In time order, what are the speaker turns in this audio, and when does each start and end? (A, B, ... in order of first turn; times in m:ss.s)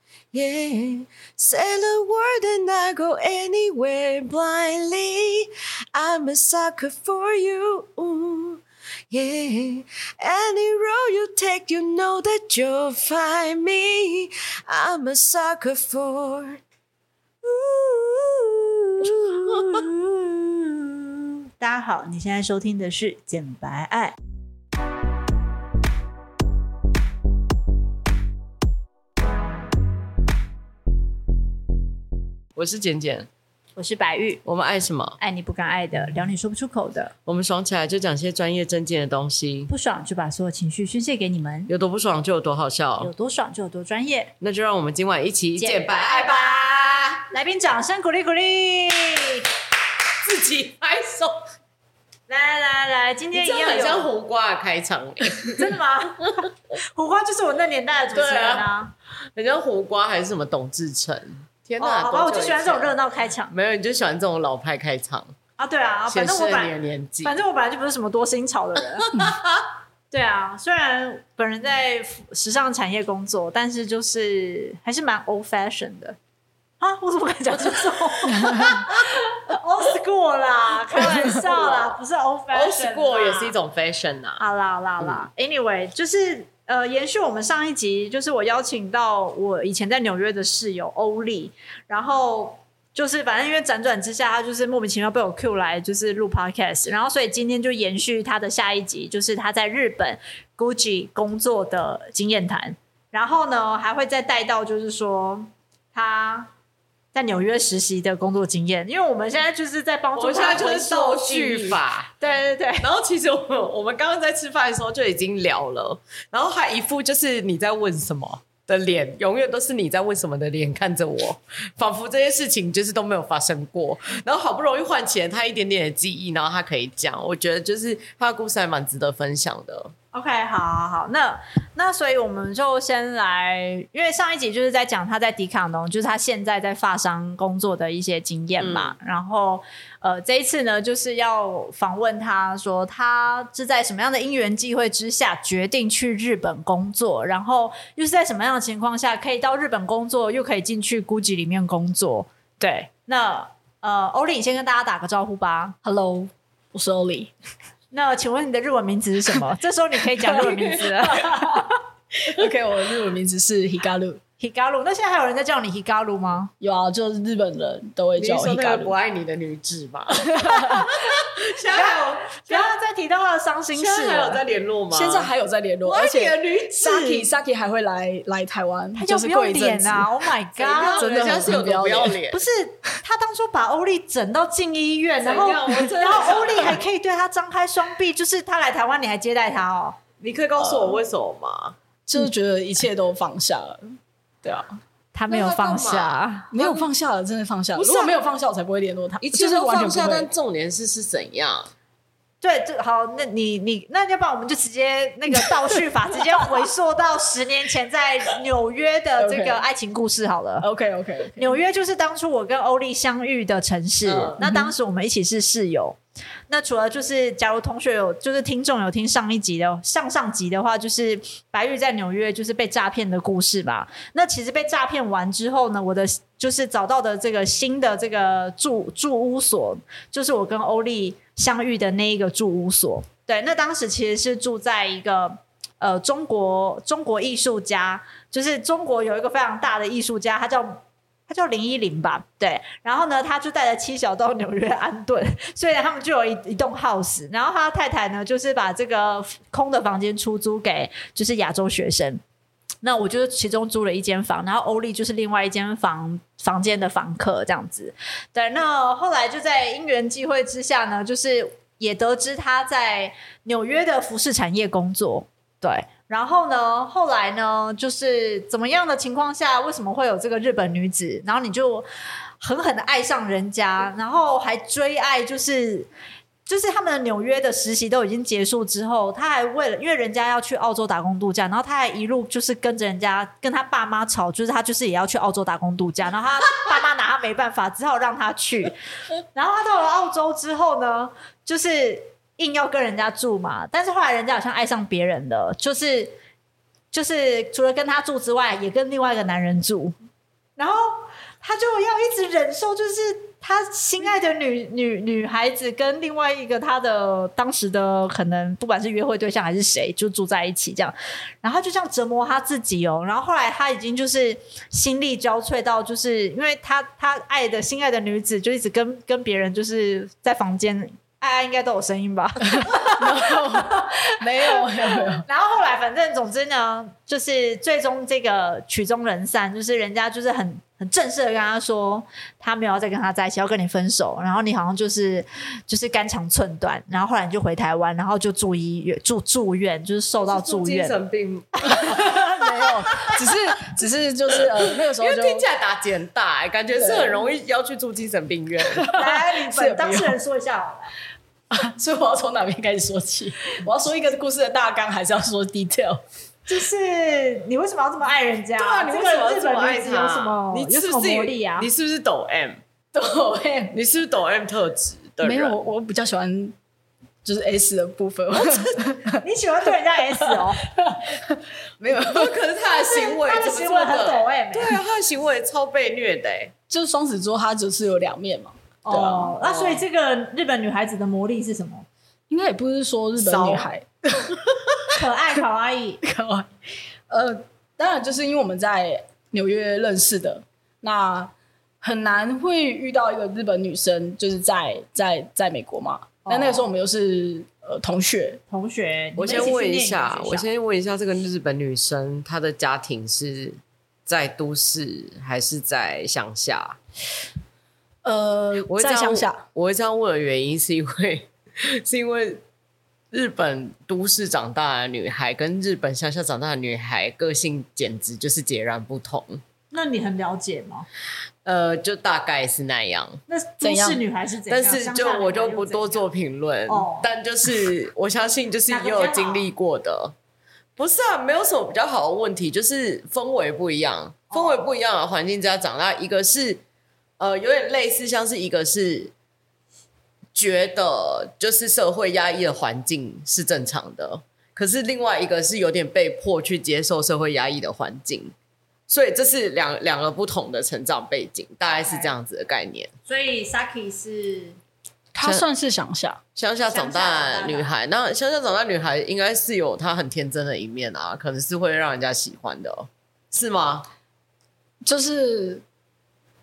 0:00.3-0:16.6 A
0:17.4-0:19.9 A
0:19.4-0:20.9 B
0:21.6-0:24.1 B
0:32.6-0:33.3 A
0:33.8-0:34.4 B
0:34.4-0:35.2 A
0:35.2-0:37.1 B
0:37.2-0:39.7 A
0:39.7-0:41.7 B
0:41.7-0:43.1 A
0:43.0-0:44.3 B
0:44.4-0:47.3 A
0:45.6-0:49.5 B
0:50.2-0:51.4 A
0:52.3-0:54.1 B
0:53.3-0:55.7 A
0:55.4-0:58.9 B
0:58.1-0:58.7 A
0:59.4-1:03.0 A
1:01.8-1:03.5 B
1:03.5-1:05.3 A
1:05.6-1:09.3 B
1:06.1-1:07.4 A
1:09.1-1:09.6 A
1:10.1-1:16.2 B
1:16.8-1:23.5 B
1:21.2-1:22.0 A
1:22.5-1:24.4 A
1:24.4-1:46.5 B
1:25.0-1:25.3 A
1:47.1-1:52.9 B
1:50.2-1:52.2 A
1:52.8-2:09.9 A
2:10.1-2:35.8 B
2:18.6-2:18.9 A
2:35.8-2:37.3 C
2:37.9-2:41.8 B
2:40.2-2:44.2 C
2:44.4-2:46.5 B
2:46.6-2:48.9 C
2:48.2-2:52.7 A
2:50.2-2:50.9 C
2:51.6-2:54.4 B
2:53.8-2:55.3 A
2:54.9-3:02.2 C
2:55.9-2:57.3 A
2:59.0-3:01.6 B
3:00.6-3:02.4 A
3:02.3-3:10.0 B
3:05.2-3:06.8 A
3:10.2-3:11.8 A
3:10.6-3:11.0 C
3:12.1-3:13.9 C
3:14.4-3:14.8 C
3:15.1-3:16.5 B
3:15.3-3:16.8 A
3:16.5-3:20.3 C
3:17.8-3:18.1 B
3:19.2-3:21.7 A
3:22.4-3:30.7 B
3:29.2-3:29.6 C
3:30.6-3:31.6 C
3:31.4-3:36.0 B
3:34.0-3:34.4 A
3:34.4-3:34.7 C
3:36.5-4:12.2 B
4:12.8-4:31.8 B
4:32.4-4:35.9 B
4:36.4-4:48.8 B
4:49.3-4:56.2 B
4:56.9-4:59.9 B
5:00.6-5:41.0 B
5:22.5-5:25.2 C
5:40.3-5:42.0 A
5:41.6-5:42.6 B
5:41.7-5:45.4 C
5:42.9-5:43.3 A
5:44.6-5:48.8 A
5:46.8-5:47.2 C
5:48.7-5:50.2 C
5:48.9-5:50.9 B
5:51.5-5:56.0 C
5:56.5-6:01.7 B
5:58.6-6:02.6 A
6:02.9-6:03.8 C
6:03.7-6:05.5 A
6:05.2-6:06.5 C
6:07.2-6:09.2 C
6:08.4-6:08.9 A
6:09.2-6:10.6 B
6:10.2-6:12.3 C
6:11.9-6:16.5 A
6:12.8-6:14.8 B
6:16.7-6:19.4 C
6:18.8-6:21.8 B
6:19.4-6:19.8 A
6:22.3-6:24.4 C
6:23.2-6:23.7 A
6:24.9-6:26.0 B
6:26.0-6:26.5 C
6:27.1-6:38.4 C
6:36.2-6:36.7 B
6:38.5-6:40.5 B
6:39.2-6:46.8 A
6:48.0-6:49.4 C
6:48.7-6:52.4 A
6:53.1-6:59.4 A
6:59.7-7:00.8 B
7:01.4-7:03.2 A
7:03.3-7:06.0 B
7:03.6-7:04.0 C
7:04.5-7:10.1 A
7:06.7-7:07.1 B
7:08.7-7:09.5 B
7:10.8-7:16.6 A
7:14.3-7:14.6 B
7:17.2-7:19.1 A
7:20.3-7:28.3 A
7:28.9-7:32.9 A
7:31.8-7:32.1 B
7:33.0-7:34.6 B
7:35.1-7:36.2 C
7:35.2-7:35.4 A
7:36.4-7:43.8 A
7:36.7-7:37.7 B
7:44.8-7:45.6 C